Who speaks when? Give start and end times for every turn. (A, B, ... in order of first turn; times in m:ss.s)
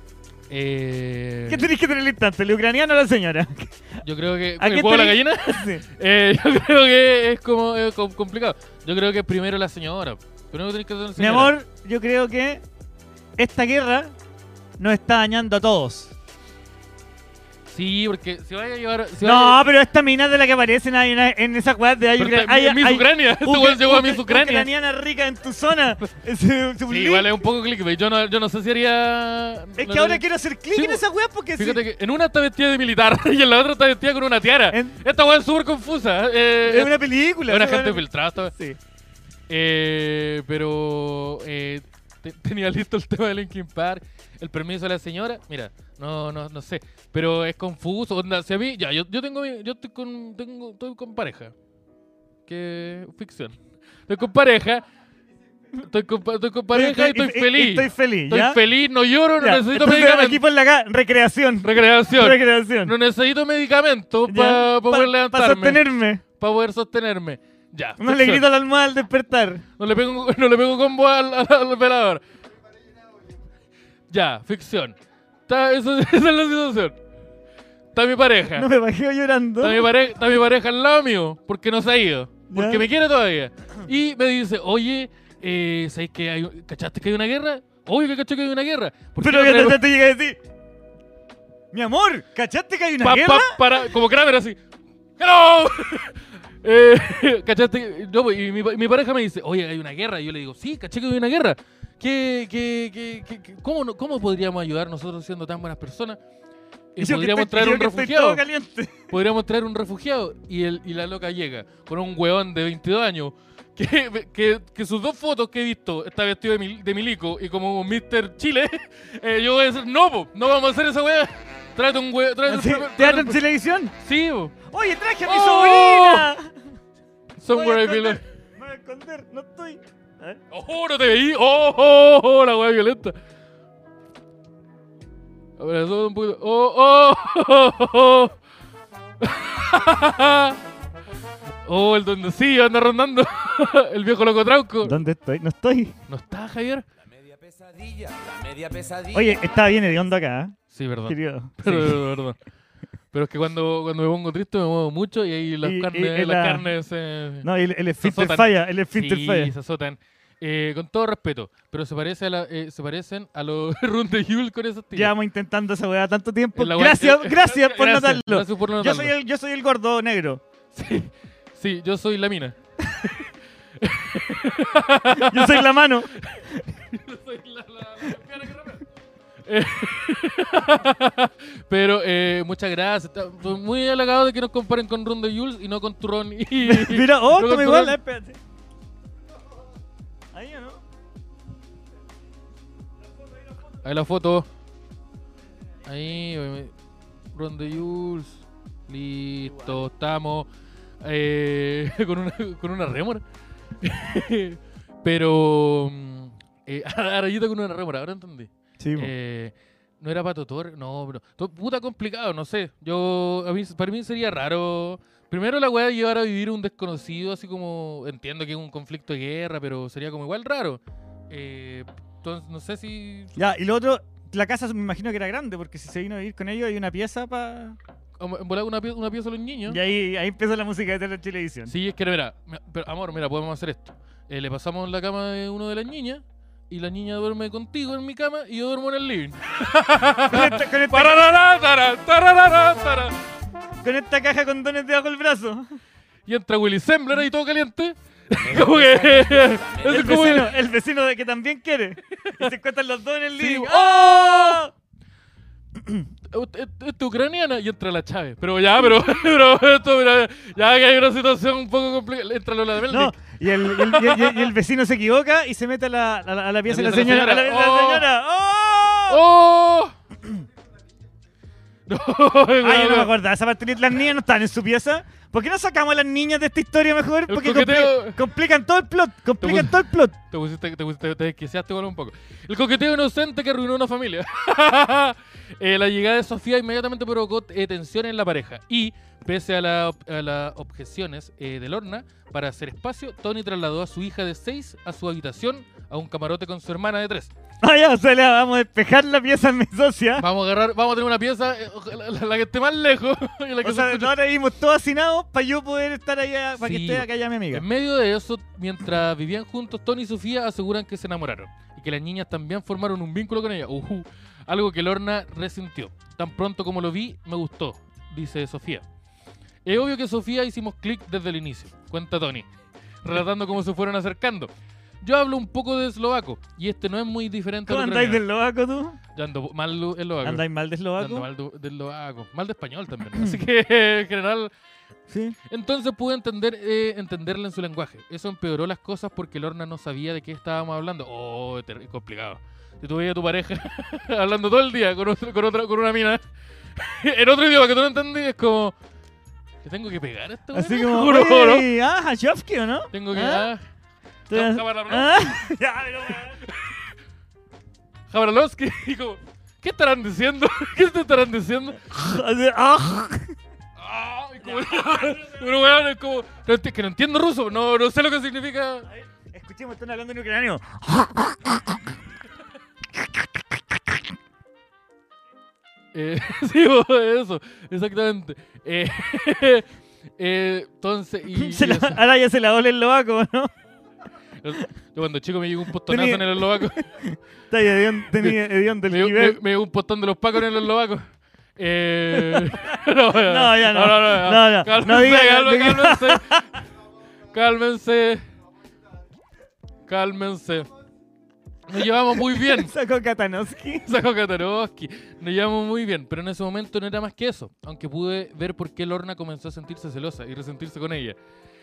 0:00.5-0:01.7 A
0:01.5-0:03.7 B
0:04.0-0:11.5 A
0:04.6-0:05.8 B
0:11.2-0:12.6 B
0:13.4-0:14.1 B
0:14.8-0:16.1 B
0:17.7-0:19.6 A
0:19.2-0:27.3 B
0:22.2-0:24.7 A
0:26.9-0:30.2 A
0:29.8-0:31.8 B
0:30.7-0:31.0 A
0:31.6-0:38.5 A
0:34.7-0:35.0 B
0:36.6-0:38.8 B
0:39.5-0:51.5 A
0:52.5-0:54.8 A
0:55.7-1:00.4 A
0:56.7-0:58.6 B
0:59.4-1:02.9 B
1:01.6-1:08.4 A
1:04.3-1:06.2 B
1:08.0-1:09.6 B
1:09.8-1:12.2 A
1:14.1-1:15.0 A
1:15.5-1:17.0 A
1:17.9-1:18.7 A
1:18.6-1:19.9 B
1:19.6-1:29.8 A
1:22.5-1:22.9 B
1:29.2-1:30.4 B
1:31.7-1:33.6 B
1:33.0-1:34.6 A
1:35.2-1:46.2 A
1:46.9-1:48.4 A
1:47.0-1:49.1 B
1:49.1-2:03.4 A
2:02.5-2:03.9 B
2:04.0-2:04.5 A
2:04.7-2:06.5 B
2:05.2-2:06.3 A
2:07.4-2:08.2 A
2:07.5-2:10.4 B
2:10.5-2:13.2 A
2:15.6-2:18.4 A
2:19.2-2:20.6 A
2:21.6-2:25.0 A
2:24.8-2:25.9 B
2:26.1-2:26.8 A
2:27.0-2:29.8 C
2:29.1-2:32.0 B
2:30.7-2:32.4 A
2:33.1-2:37.5 A
2:35.6-2:36.7 B
2:37.4-2:39.5 B
2:38.0-2:45.1 A
2:44.9-2:50.4 B
2:46.6-2:49.1 A
2:50.7-2:58.8 A
2:55.1-2:56.1 B
2:59.4-3:08.0 A
3:06.6-3:08.4 B
3:10.3-3:10.8 B
3:13.8-3:14.5 A
3:15.8-3:16.7 A
3:17.3-3:20.5 A
3:21.0-3:23.2 A
3:23.8-3:43.4 A
3:28.8-3:29.1 B
3:43.4-3:47.8 B
3:48.2-3:49.8 A
3:49.7-3:51.7 B
3:51.7-4:03.2 A
4:00.3-4:01.3 B
4:03.8-4:05.6 B
4:06.2-4:10.5 A
4:08.4-4:10.4 C
4:09.8-4:14.7 B
4:12.2-4:12.5 A
4:13.4-4:14.6 A
4:16.3-4:24.5 A
4:22.9-4:29.2 B
4:26.7-4:28.0 A
4:29.1-4:30.0 A
4:31.9-4:33.1 A
4:32.6-4:40.1 B
4:37.3-4:38.2 A
4:39.4-4:57.3 A
4:57.6-5:00.2 B
5:00.2-5:04.1 A
5:03.6-5:07.6 B
5:06.6-5:18.8 A
5:19.6-5:22.5 A
5:23.0-5:24.5 A
5:25.0-5:28.2 A
5:27.7-5:29.0 B
5:29.1-5:30.4 A
5:30.2-5:31.3 B
5:31.0-5:34.5 A
5:33.1-5:33.4 B
5:35.1-5:35.4 B
5:35.5-5:46.2 A
5:46.8-5:48.8 A
5:49.6-5:51.7 A
5:50.5-5:53.5 B
5:52.9-5:53.6 A
5:54.3-5:56.4 B
5:54.3-5:55.4 A
5:56.4-5:56.8 A
5:58.1-6:02.2 A
6:01.9-6:03.3 B
6:03.8-6:08.9 A
6:09.3-6:12.0 B
6:13.0-6:14.0 B
6:15.9-6:19.7 A
6:20.2-6:22.0 A
6:21.3-6:23.5 B
6:24.4-6:26.9 A
6:25.8-6:29.4 B
6:28.1-6:36.4 A
6:32.1-6:36.4 B
6:37.3-6:38.2 A
6:39.8-6:40.7 A
6:41.7-6:42.7 A
6:42.2-6:43.8 B
6:43.8-6:51.2 A